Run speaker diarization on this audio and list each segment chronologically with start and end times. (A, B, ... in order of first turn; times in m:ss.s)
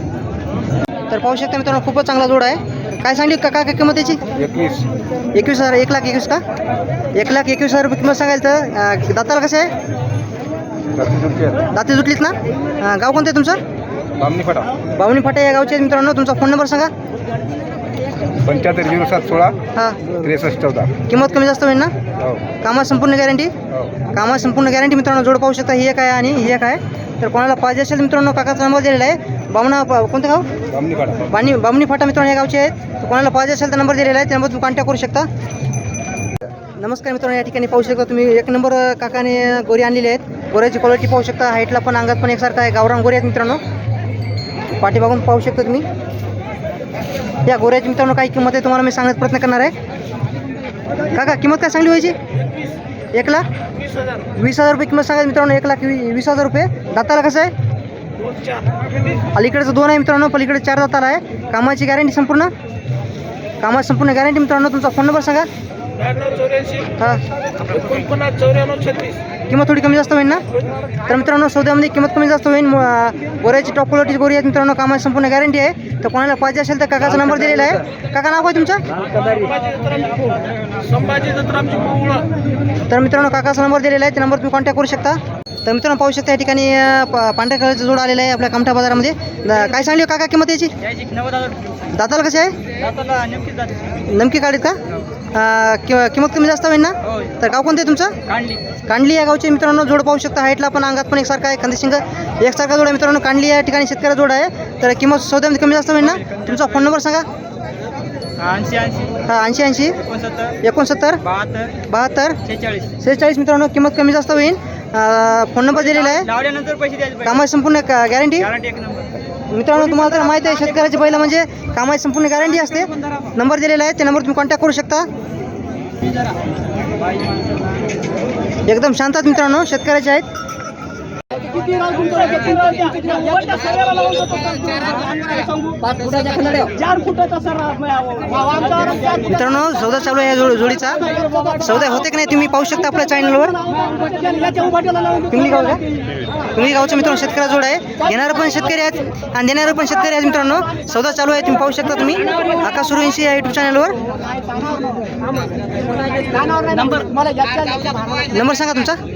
0:01.1-0:04.2 A
0:04.4-0:04.9 B
0:05.3-0:06.4 A
0:07.1-0:09.7 A
0:11.0-0:11.6 B
0:11.7-0:13.6 A
0:14.2-0:14.7 B
0:15.0-0:16.9 A
0:18.4-0:19.5 B
0:19.8-0:20.0 A
0:20.2-0:20.9 B
0:21.1-0:21.9 A
0:22.6-0:23.5 A
0:24.1-0:30.5 A
0:30.8-0:31.2 B
0:31.3-0:35.3 A
0:36.8-0:43.6 A
0:44.8-0:45.9 A
0:47.4-0:49.7 A
0:51.1-0:52.2 A
0:53.1-0:53.4 A
0:54.4-0:57.5 A
0:59.3-1:02.5 A
1:03.6-1:05.5 A
1:09.5-1:10.4 A
1:11.1-1:18.8 A
1:22.9-1:30.7 A
1:31.9-1:32.6 A
1:32.8-1:33.6 C
1:34.1-1:34.8 A
1:35.3-1:38.2 A
1:38.3-1:38.6 C
1:38.9-1:47.3 A
1:48.4-1:48.9 C
1:49.2-1:50.0 A
1:50.1-1:50.5 C
1:50.6-1:51.2 A
1:51.3-1:51.7 C
1:51.9-1:52.4 A
1:52.5-1:52.8 C
1:53.0-1:56.3 A
1:56.2-1:57.2 C
1:57.2-1:58.5 A
1:58.4-1:59.1 C
1:59.5-2:05.1 A
1:59.8-2:00.7 C
2:08.7-2:10.3 A
2:12.7-2:14.8 C
2:16.8-2:18.6 C
2:19.2-2:23.6 A
2:24.1-2:24.9 C
2:25.3-2:25.8 A
2:26.5-2:34.0 A
2:37.2-2:37.5 C
2:38.3-2:39.0 A